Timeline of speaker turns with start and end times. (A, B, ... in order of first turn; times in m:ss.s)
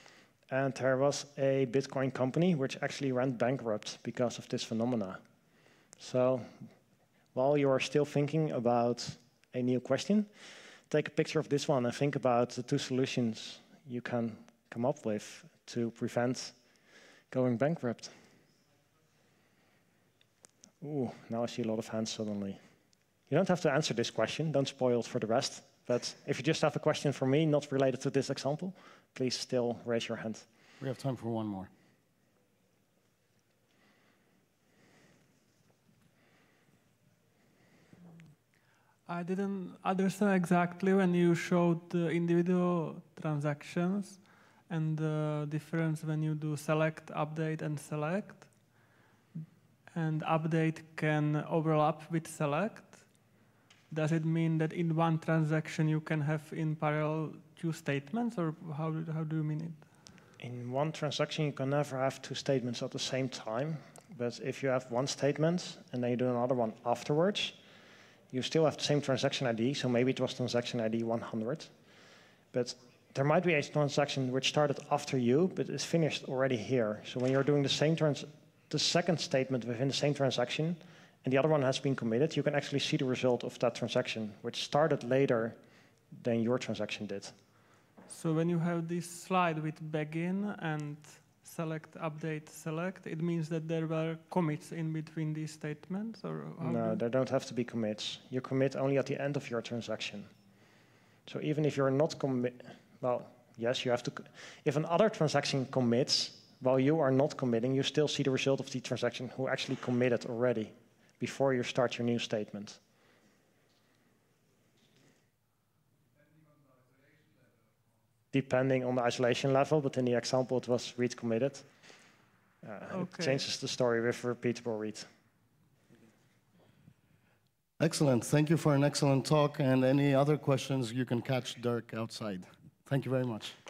0:00.5-0:05.2 A
0:06.0-0:06.7 A
0:07.3-0:10.3 A
0:10.9-0:16.6 A
0:17.3-0:18.1 A
0:20.8-0:22.6 A
0:23.3-0:30.5 A
0:30.8-0:31.7 B
0:39.0-0:53.3 C
0:53.9-0:59.9 C
1:00.4-1:07.6 A
1:08.3-1:11.7 A
1:12.5-1:25.6 A
1:26.1-1:27.3 A
1:28.1-1:37.0 C
1:36.6-1:40.3 A
1:41.2-1:52.8 A
1:58.3-2:01.7 A
2:02.6-2:05.1 A
2:02.9-2:03.4 C
2:07.8-2:13.6 B